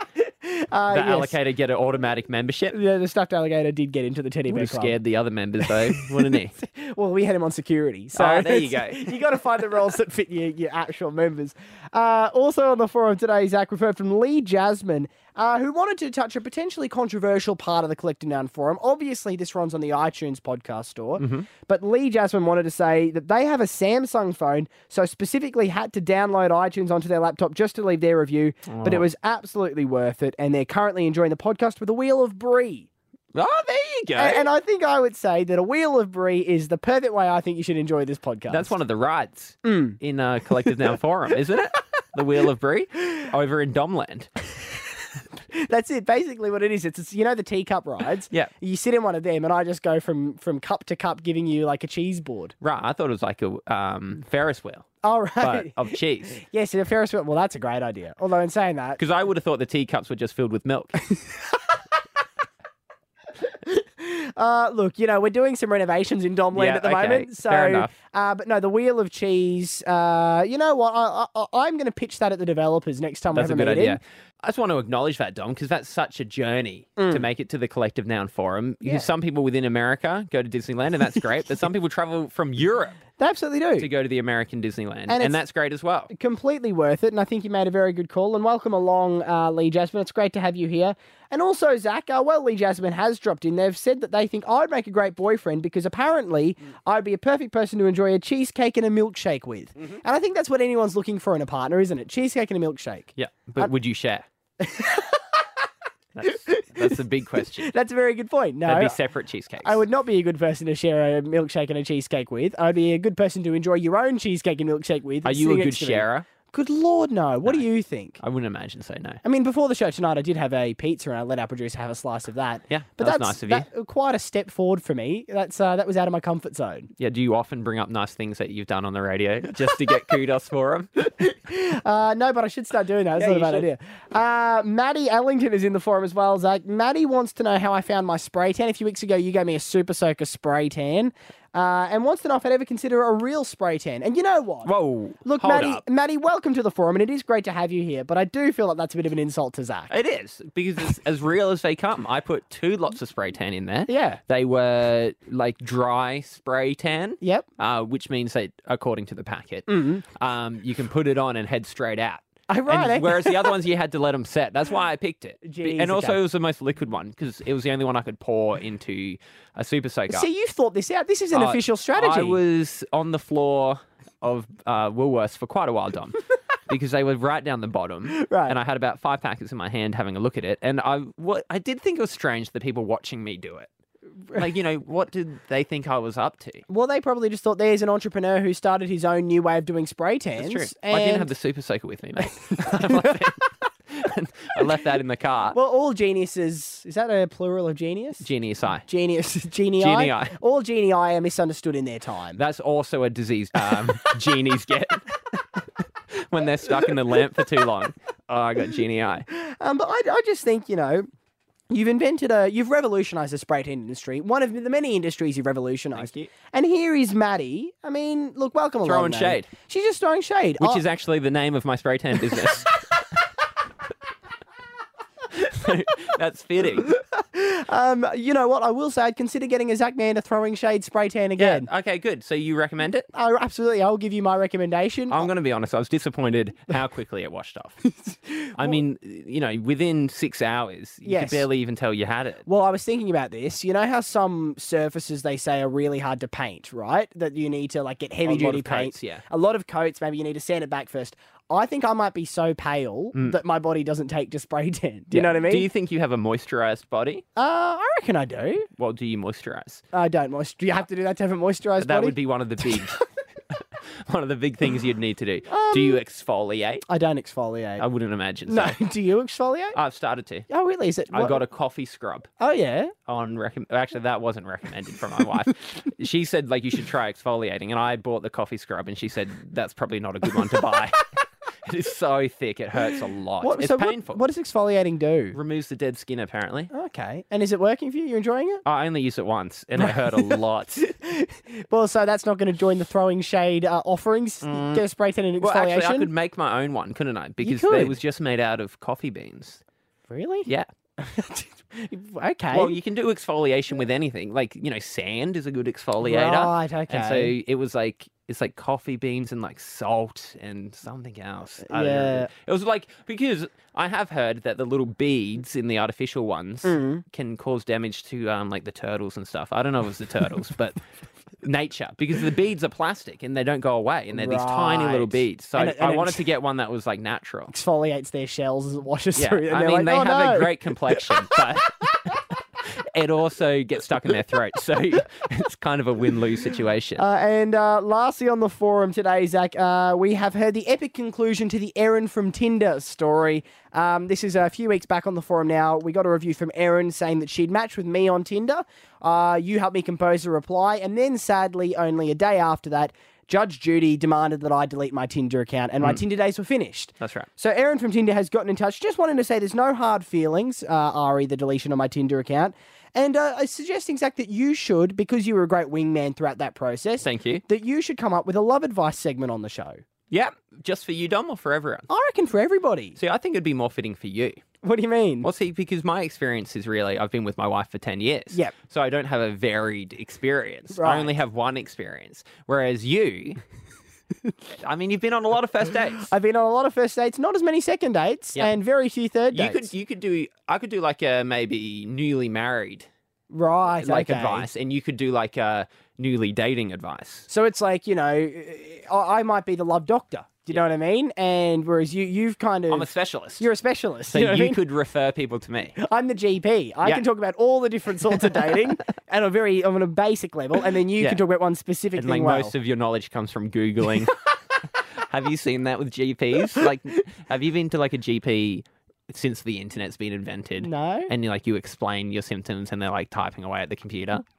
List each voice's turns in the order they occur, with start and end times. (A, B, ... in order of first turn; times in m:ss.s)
0:00.4-0:01.3 A
0:00.9-0:02.8 B
0:02.7-0:05.0 A
0:04.5-0:06.5 B
0:05.7-0:32.9 A
0:08.1-0:09.2 B
0:21.2-0:21.5 B
0:28.7-0:29.1 B
0:33.4-0:34.4 B
0:34.2-0:38.7 A
0:38.5-0:44.3 B
0:39.6-0:40.0 A
0:45.6-0:52.6 A
0:52.6-0:56.4 B
0:55.0-0:59.0 A
0:59.0-1:01.2 B
1:03.7-1:14.0 A
1:06.5-1:07.9 B
1:13.3-1:23.1 B
1:17.0-1:17.2 A
1:18.8-1:19.1 A
1:23.2-1:23.9 A
1:23.8-1:26.1 B
1:25.1-1:25.4 A
1:26.1-1:43.7 A
1:43.2-1:44.3 B
1:44.6-1:45.2 A
1:46.2-1:47.7 B
1:46.2-1:47.0 A
1:47.6-1:49.0 A
1:48.7-1:49.8 B
1:49.6-1:58.2 A
1:55.2-1:56.3 B
1:58.2-1:59.2 B
1:59.2-2:06.9 A
2:02.7-2:03.7 B
2:07.0-2:10.9 B
2:11.2-2:24.7 A
2:13.1-2:13.7 B
2:24.6-2:25.8 B
2:25.2-2:29.9 A
2:29.9-2:50.3 B
2:33.9-2:34.2 A
2:37.2-2:37.5 A
2:39.7-2:40.0 A
2:42.5-2:43.6 A
2:45.4-2:46.2 A
2:50.1-2:52.4 A
2:51.3-3:03.7 B
2:58.1-2:58.6 A
3:04.4-3:06.6 B
3:06.7-3:11.3 A
3:10.4-3:15.6 B
3:12.5-3:13.2 A
3:15.5-3:18.3 A
3:18.2-3:18.8 B
3:18.9-3:22.4 A
3:19.8-3:20.4 B
3:22.4-3:25.6 B
3:26.3-3:29.3 B
3:29.3-3:31.1 A
3:31.7-3:40.8 A
3:36.0-3:36.3 B
3:38.8-3:39.5 B
3:40.6-3:42.8 B
3:45.4-3:47.0 B
3:46.9-3:51.7 A
3:51.4-3:53.1 B
3:53.1-3:55.3 A
3:55.1-3:57.8 B
3:58.0-3:58.8 A
3:58.6-4:02.4 B
4:01.0-4:01.5 A
4:02.5-4:15.7 A
4:08.2-4:09.2 B
4:15.1-4:17.2 B
4:17.4-4:18.7 A
4:18.8-4:19.8 B
4:19.9-4:23.0 A
4:21.8-4:23.0 B
4:23.5-4:26.8 B
4:25.5-4:26.0 A
4:26.9-4:27.8 A
4:27.8-4:28.8 B
4:28.5-4:29.8 A
4:29.7-4:30.5 B
4:30.5-4:31.4 A
4:31.1-4:32.3 B
4:32.4-4:32.9 A
4:33.1-4:41.1 B
4:41.6-4:44.2 B
4:43.4-4:45.4 A
4:45.3-4:46.7 B
4:46.7-4:48.6 A
4:48.7-4:50.8 B
4:49.8-4:56.1 A
4:54.4-4:54.8 B
4:55.4-4:59.6 B
4:57.4-4:58.0 A
5:00.1-5:02.8 A
5:02.5-5:20.8 B
5:06.0-5:07.3 A
5:11.7-5:12.3 A
5:16.6-5:17.0 A
5:21.4-5:27.5 B
5:24.1-5:26.2 A
5:27.5-5:31.0 A
5:29.2-5:31.8 B
5:33.0-5:37.0 B
5:37.0-6:09.8 A
5:57.0-5:57.3 B
6:07.0-6:07.4 B
6:10.1-6:11.9 B
6:11.9-6:13.0 A
6:13.0-6:14.4 B
6:14.6-6:15.3 A
6:15.2-6:23.4 B
6:20.7-6:21.1 A
6:24.6-6:26.1 B
6:26.0-6:29.7 A
6:29.3-6:32.9 B
6:33.3-6:34.5 A
6:33.8-6:37.3 B
6:37.3-6:42.9 A
6:42.7-6:43.5 B
6:43.4-6:44.6 A
6:44.1-6:45.8 B
6:45.8-6:52.5 A
6:48.2-6:48.6 B
6:51.0-6:51.2 B
6:52.0-6:54.3 B
6:55.1-7:04.2 B
7:00.6-7:01.1 A